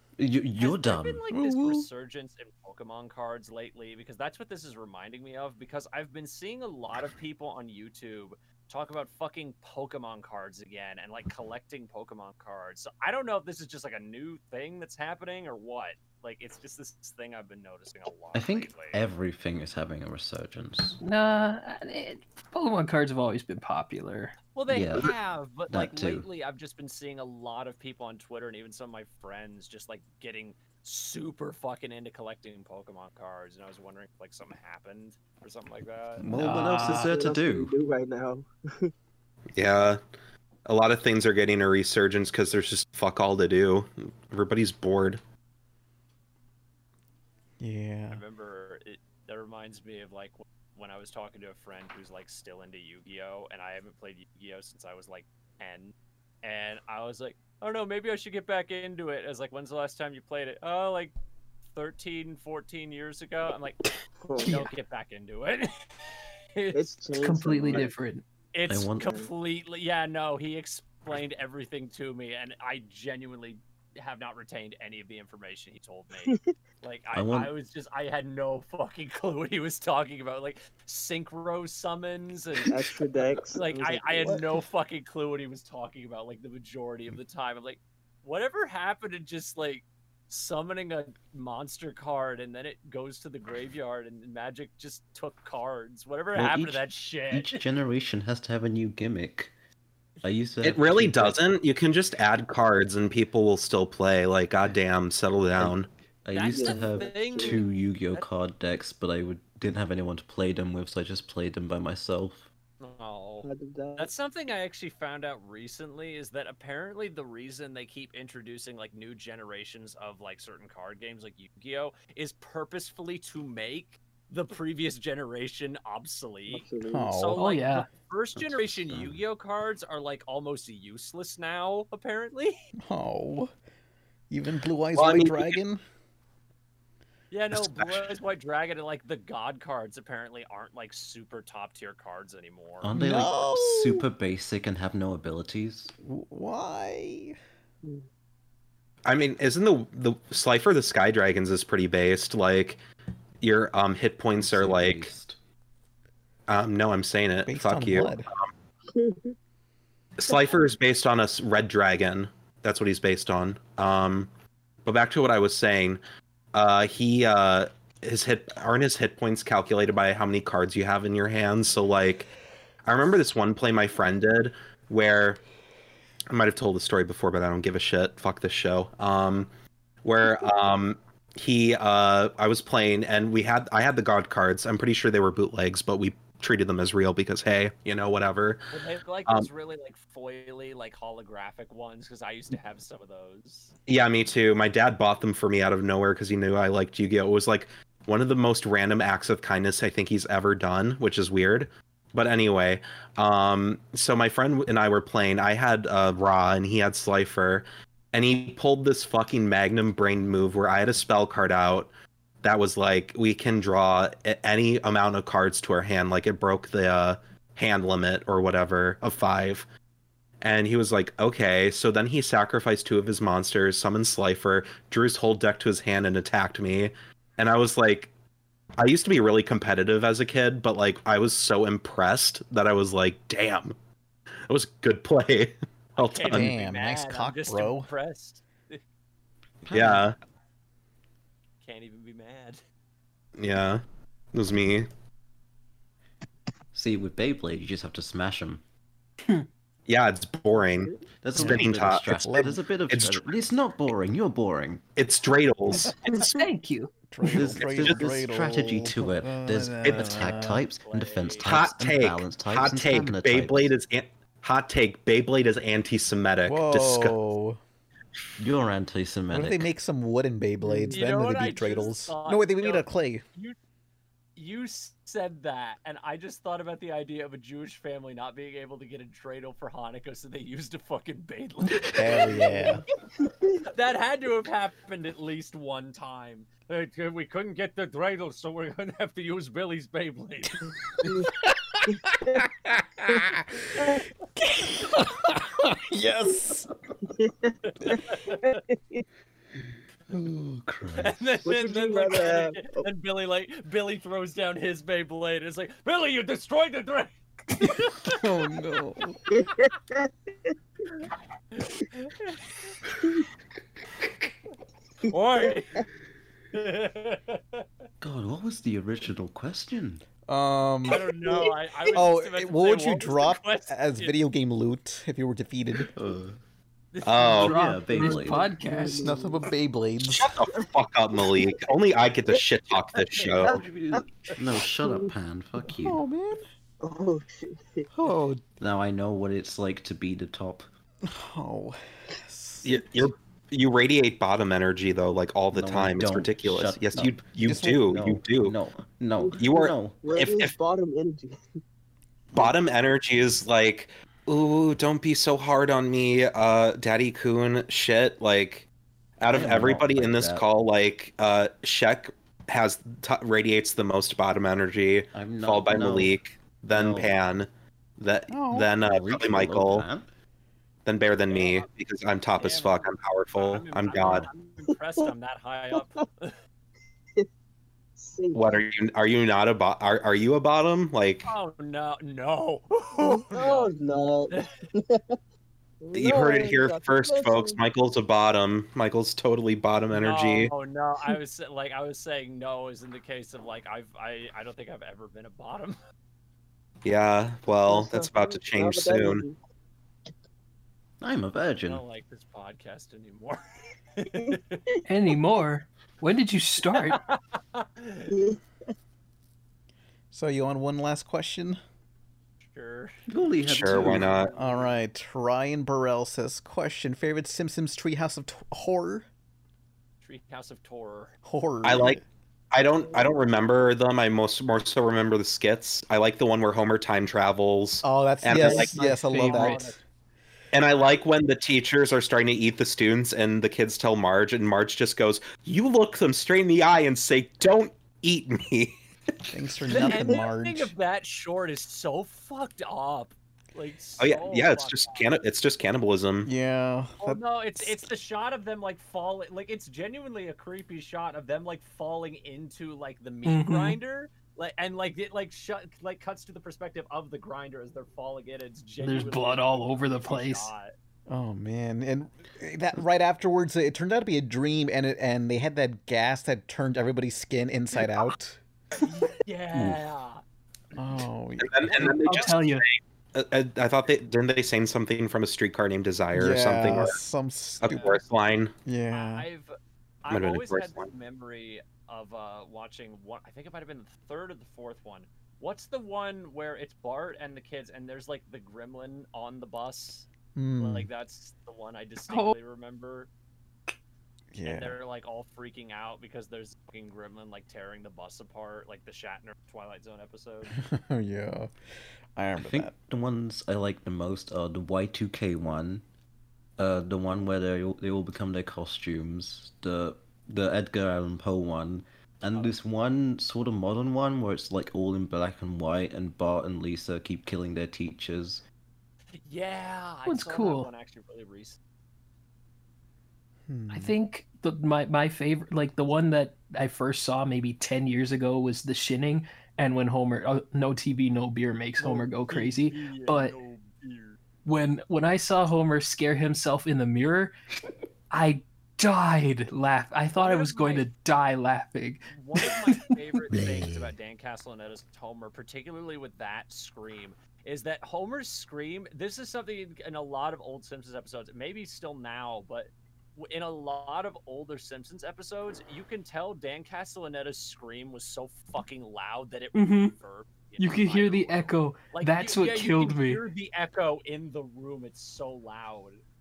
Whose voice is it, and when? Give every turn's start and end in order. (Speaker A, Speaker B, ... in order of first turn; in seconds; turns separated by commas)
Speaker A: 0.2-1.2, Speaker B: 0.6-19.0, Speaker C: 1.3-1.9, Speaker A: 18.3-21.0, Speaker D: 21.0-24.4, Speaker B: 24.5-36.3, Speaker A: 24.7-25.1, Speaker A: 25.7-26.3, Speaker A: 36.2-37.7, Speaker D: 36.3-37.1, Speaker E: 36.8-38.9, Speaker F: 39.6-40.0, Speaker F: 40.6-45.2, Speaker C: 47.6-48.2, Speaker B: 48.1-61.1, Speaker B: 61.7-63.8, Speaker E: 64.2-64.7, Speaker B: 64.4-65.7, Speaker E: 66.7-67.9, Speaker D: 67.2-68.2, Speaker B: 68.5-82.8, Speaker A: 68.7-69.1, Speaker A: 77.1-77.5, Speaker E: 82.7-84.6, Speaker B: 83.5-97.6, Speaker A: 96.3-99.5, Speaker A: 100.2-101.4, Speaker F: 100.6-105.9, Speaker A: 105.6-112.5, Speaker B: 106.3-108.3, Speaker E: 106.5-107.7, Speaker B: 112.8-132.6, Speaker E: 113.4-114.1, Speaker E: 126.5-127.2, Speaker C: 126.9-127.4, Speaker D: 127.4-127.9, Speaker A: 128.4-129.2, Speaker C: 132.8-133.5, Speaker C: 134.3-135.8, Speaker F: 134.9-135.6, Speaker B: 137.3-142.9, Speaker F: 137.5-138.0, Speaker A: 142.8-145.9, Speaker C: 142.9-144.0, Speaker C: 146.0-147.4, Speaker F: 149.1-152.8, Speaker F: 153.4-155.1, Speaker A: 154.4-155.4, Speaker F: 156.5-158.5, Speaker C: 157.5-158.3, Speaker E: 158.9-159.3, Speaker F: 160.2-164.3, Speaker F: 164.8-166.0, Speaker F: 166.5-172.3, Speaker F: 172.9-175.4, Speaker F: 176.3-179.5, Speaker F: 180.0-188.7, Speaker B: 188.7-193.7, Speaker F: 193.9-211.9, Speaker F: 212.4-219.7, Speaker F: 220.4-228.1, Speaker F: 228.8-233.7, Speaker F: 234.5-236.5, Speaker B: 236.0-238.8, Speaker C: 236.3-237.9, Speaker A: 239.6-240.1, Speaker F: 239.7-240.2, Speaker B: 241.6-242.6, Speaker F: 243.4-243.8, Speaker F: 244.3-244.9, Speaker A: 246.7-248.6, Speaker F: 249.9-252.3, Speaker A: 251.2-254.8, Speaker C: 252.2-252.6, Speaker F: 252.9-253.3, Speaker F: 254.9-256.5, Speaker D: 256.2-256.9, Speaker C: 257.1-260.6, Speaker A: 257.3-263.7, Speaker F: 257.6-258.1, Speaker F: 259.9-260.1, Speaker B: 260.8-261.5, Speaker F: 261.4-267.1, Speaker C: 266.4-267.6, Speaker A: 268.4-269.7, Speaker C: 269.3-273.2, Speaker E: 270.7-270.9, Speaker B: 270.9-273.6, Speaker B: 274.4-282.6, Speaker C: 281.9-282.8, Speaker E: 282.3-282.8, Speaker B: 283.7-290.6, Speaker E: 291.0-291.3, Speaker E: 291.9-292.5, Speaker C: 293.1-293.4, Speaker E: 293.1-294.1, Speaker C: 294.4-296.7, Speaker E: 297.0-299.0, Speaker B: 297.9-298.6, Speaker A: 300.1-301.2, Speaker B: 301.0-308.1, Speaker E: 301.4-302.9, Speaker C: 308.0-309.2, Speaker E: 309.3-310.5, Speaker B: 311.6-312.7, Speaker B: 315.1-315.9, Speaker B: 316.5-317.6, Speaker A: 318.0-320.1, Speaker C: 320.3-321.0, Speaker B: 320.9-324.1, Speaker E: 320.9-321.6, Speaker C: 321.9-325.9, Speaker A: 325.9-326.4, Speaker B: 326.9-328.2, Speaker F: 327.0-327.6, Speaker D: 327.3-329.1, Speaker A: 327.4-328.4, Speaker E: 328.1-329.5, Speaker C: 328.9-330.3, Speaker F: 330.1-333.6, Speaker E: 330.4-331.7, Speaker E: 333.1-334.3, Speaker A: 333.4-336.0, Speaker E: 334.8-335.1, Speaker C: 335.8-336.4, Speaker E: 336.8-337.9, Speaker C: 337.9-338.4, Speaker A: 338.6-340.7, Speaker C: 341.1-342.7, Speaker F: 342.6-348.6, Speaker A: 345.5-350.0, Speaker E: 349.2-351.4, Speaker F: 349.4-350.5, Speaker F: 352.3-358.7, Speaker F: 359.2-369.9, Speaker A: 359.3-360.5, Speaker A: 365.1-366.2, Speaker A: 366.7-367.2, Speaker C: 368.3-368.7, Speaker A: 368.8-370.1, Speaker F: 370.9-374.3, Speaker B: 371.3-371.7, Speaker B: 372.4-376.4, Speaker E: 375.7-376.0, Speaker E: 378.0-378.6, Speaker F: 378.3-381.3, Speaker B: 381.3-383.7, Speaker E: 383.0-385.2, Speaker E: 385.8-387.6, Speaker F: 385.9-390.5, Speaker B: 389.9-395.8, Speaker F: 396.9-399.2, Speaker E: 397.6-399.4, Speaker A: 401.0-401.9, Speaker B: 401.6-403.4, Speaker B: 404.0-404.6, Speaker D: 404.9-407.0, Speaker B: 406.7-408.1, Speaker E: 408.1-408.4, Speaker C: 410.1-411.6, Speaker B: 412.4-412.9, Speaker A: 413.1-414.3, Speaker F: 413.4-414.3, Speaker B: 413.9-414.6, Speaker C: 414.3-419.1, Speaker B: 420.0-421.1, Speaker C: 421.2-422.0, Speaker F: 421.6-422.0, Speaker F: 422.5-428.8, Speaker E: 422.7-423.1, Speaker C: 427.8-429.6, Speaker D: 428.3-429.7, Speaker B: 428.4-429.8, Speaker F: 430.5-438.7, Speaker C: 439.3-440.7, Speaker B: 439.7-445.1, Speaker F: 444.0-446.3, Speaker C: 446.2-447.8, Speaker B: 447.0-460.7, Speaker D: 453.2-453.8, Speaker D: 458.8-460.5, Speaker C: 461.1-468.4, Speaker B: 468.8-470.2, Speaker C: 470.7-471.9, Speaker F: 471.4-477.0, Speaker D: 471.8-472.6, Speaker B: 471.9-472.2, Speaker C: 476.1-477.9, Speaker F: 477.6-478.5, Speaker B: 477.7-478.1, Speaker C: 478.6-479.3, Speaker B: 478.9-479.5, Speaker B: 480.0-490.1, Speaker F: 480.1-480.9, Speaker C: 490.4-490.9, Speaker B: 490.6-493.1, Speaker D: 492.1-492.4, Speaker C: 494.3-494.8, Speaker B: 494.4-500.6, Speaker C: 500.5-501.5, Speaker C: 502.1-502.7, Speaker A: 502.4-505.9, Speaker A: 506.6-518.4, Speaker B: 519.1-521.6, Speaker D: 520.1-520.7, Speaker C: 523.5-523.9, Speaker D: 523.7-533.4, Speaker B: 531.8-534.2, Speaker D: 534.4-537.3, Speaker D: 538.1-543.2, Speaker B: 540.1-540.9, Speaker B: 542.1-566.0, Speaker A: 543.3-543.9, Speaker D: 559.5-559.9, Speaker D: 560.6-563.2